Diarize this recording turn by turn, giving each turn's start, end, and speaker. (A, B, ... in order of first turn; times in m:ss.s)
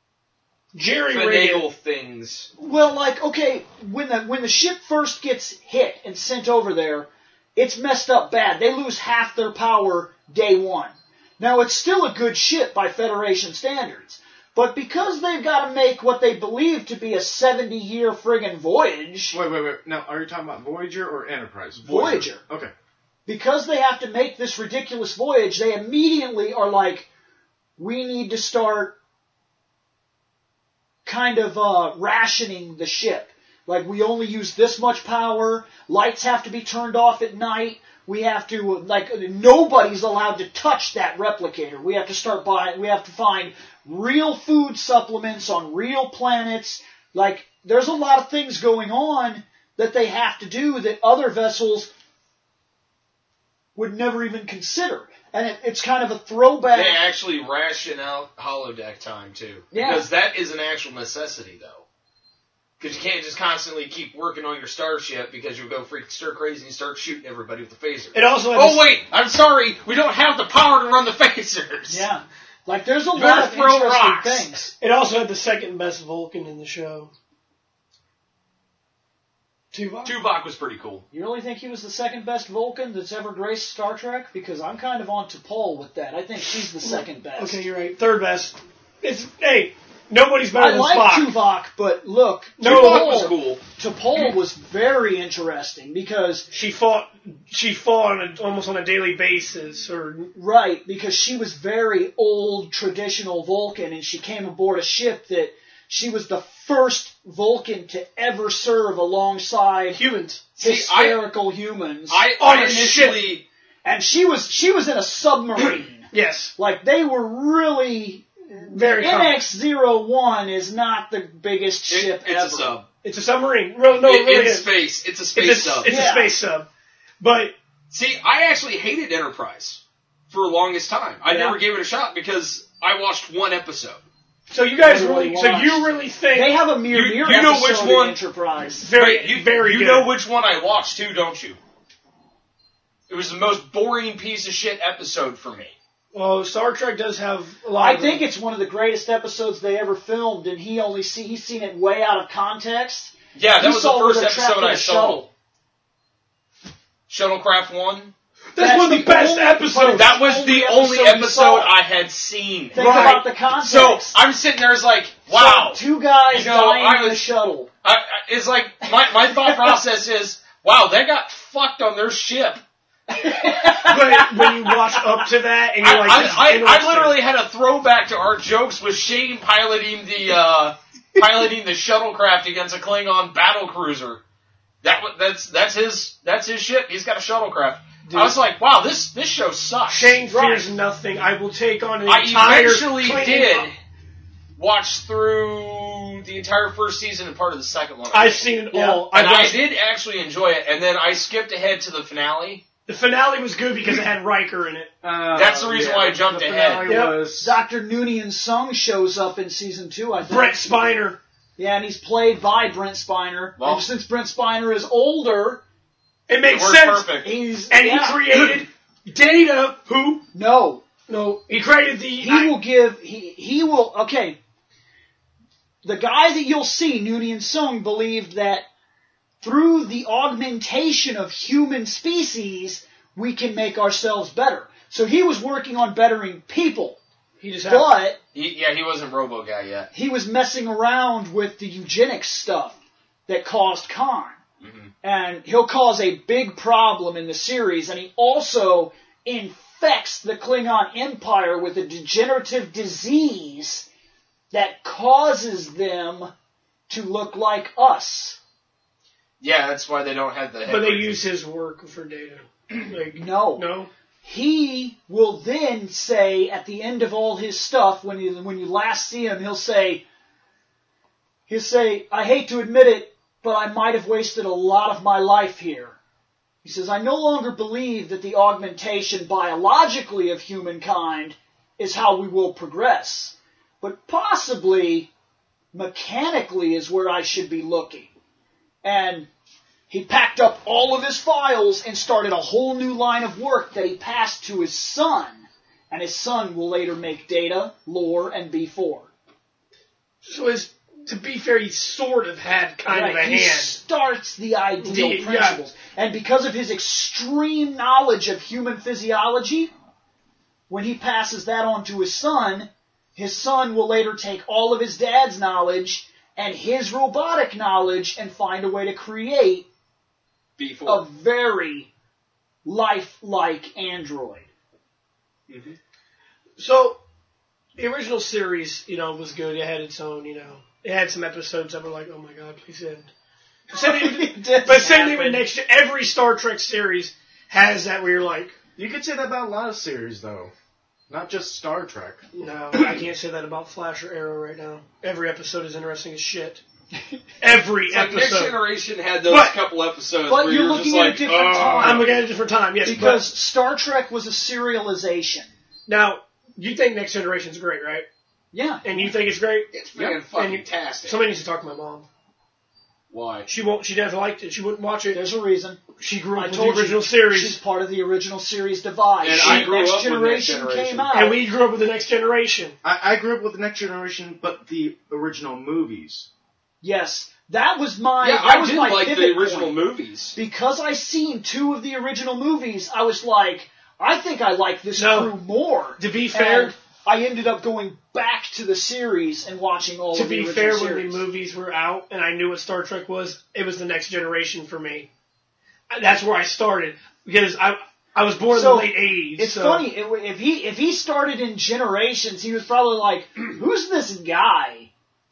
0:00.7-0:01.6 A
0:01.1-0:02.5 B
0:02.6-0:19.4 C
0:19.3-0:22.7 D
0:21.8-0:22.4 C
0:23.3-0:27.1 C
0:27.8-0:29.0 C
0:31.0-0:51.9 C
0:53.8-0:57.0 C
0:56.7-1:01.8 B
0:59.7-1:00.1 C
1:02.8-1:12.1 B
1:08.1-1:08.8 A
1:11.9-1:14.7 C
1:13.1-1:14.5 B
1:14.8-1:17.1 A
1:19.7-1:20.2 A
1:20.0-1:21.0 B
1:21.1-1:27.6 C
1:26.8-1:31.4 A
1:30.6-1:36.5 C
1:32.6-1:33.2 A
1:32.6-1:33.6 B
1:36.5-1:40.3 A
1:40.4-1:50.0 C
1:49.9-1:50.5 A
1:50.6-1:51.2 B
1:50.6-1:52.2 C
1:52.1-1:53.4 B
1:52.4-1:53.3 A
1:53.8-2:02.8 C
1:56.1-1:56.5 A
1:58.7-1:59.4 A
2:01.9-2:02.9 B
2:03.0-2:04.7 A
2:03.9-2:06.0 B
2:05.3-2:06.7 A
2:05.8-2:06.3 C
2:07.2-2:07.5 A
2:07.9-2:14.0 B
2:11.3-2:11.6 C
2:14.5-2:16.6 A
2:14.8-2:18.9 C
2:16.9-2:18.2 B
2:18.8-2:20.1 A
2:18.9-2:21.6 B
2:23.1-2:25.8 B
2:26.1-2:28.2 A
2:27.8-2:35.3 C
2:33.4-2:35.3 B
2:37.1-2:38.1 B
2:38.6-2:40.1 A
2:38.6-2:41.7 C
2:39.8-2:47.3 B
2:42.7-2:44.2 C
2:42.8-2:43.2 A
2:45.3-2:47.7 C
2:47.8-2:52.6 B
2:49.3-2:49.8 C
2:53.1-2:55.2 C
2:53.8-2:57.2 A
2:55.8-3:04.2 B
3:04.8-3:10.2 B
3:08.0-3:08.4 A
3:09.9-3:13.8 A
3:10.3-3:10.8 C
3:12.1-3:13.7 B
3:14.6-3:18.5 B
3:18.1-3:19.6 A
3:18.7-3:19.0 C
3:19.0-3:22.6 B
3:22.9-3:24.9 A
3:25.0-3:27.6 D
3:25.3-3:27.0 B
3:26.8-3:27.2 A
3:27.4-3:30.6 C
3:30.2-3:31.2 A
3:31.6-3:35.6 C
3:33.6-3:33.9 B
3:36.3-3:37.1 A
3:36.5-3:37.3 B
3:37.2-3:38.6 C
3:37.7-3:40.2 A
3:40.3-3:40.8 C
3:41.1-3:42.5 A
3:42.2-3:44.4 C
3:45.8-3:48.7 C
3:49.4-3:57.0 C
3:57.4-3:57.9 A
3:57.6-3:58.2 C
3:58.3-3:59.9 B
3:59.9-4:02.8 C
4:03.3-4:04.4 C
4:04.6-4:04.9 B
4:05.0-4:13.9 C
4:14.5-4:16.3 C
4:16.9-4:18.4 C
4:19.4-4:21.3 B
4:20.7-4:23.9 A
4:23.2-4:23.7 C
4:24.2-4:30.0 C
4:31.5-4:36.0 C
4:36.6-4:45.1 C
4:45.7-4:48.1 C
4:48.8-4:49.3 C
4:49.9-4:59.1 C
5:00.2-5:03.8 A
5:02.9-5:09.7 C
5:04.8-5:05.6 A
5:10.7-5:19.7 C
5:20.6-5:21.1 B
5:20.9-5:21.9 C
5:22.6-5:24.5 C
5:25.5-5:25.8 B
5:26.6-5:27.0 A
5:27.8-5:33.1 A
5:33.7-5:38.6 A
5:33.7-5:35.4 C
5:38.8-5:40.5 D
5:41.1-5:42.2 D
5:42.4-5:46.6 A
5:47.4-5:48.6 A
5:47.9-5:52.1 B
5:49.3-5:49.6 A
5:50.3-5:52.1 C
5:51.8-5:53.3 A
5:52.8-5:55.5 C
5:55.9-5:58.0 A
5:58.5-5:59.1 C
5:58.8-6:02.1 A
5:59.7-6:01.2 B
6:03.1-6:03.5 B
6:03.5-6:05.2 A
6:05.1-6:11.4 C
6:06.0-6:07.6 A
6:09.2-6:11.1 B
6:09.4-6:09.7 A
6:11.1-6:12.8 A
6:12.8-6:16.3 D
6:16.8-6:19.8 C
6:18.2-6:20.4 B
6:20.4-6:31.2 C
6:25.0-6:25.3 A
6:26.0-6:26.7 A
6:30.1-6:35.1 A
6:35.9-6:39.9 A
6:38.5-6:44.9 C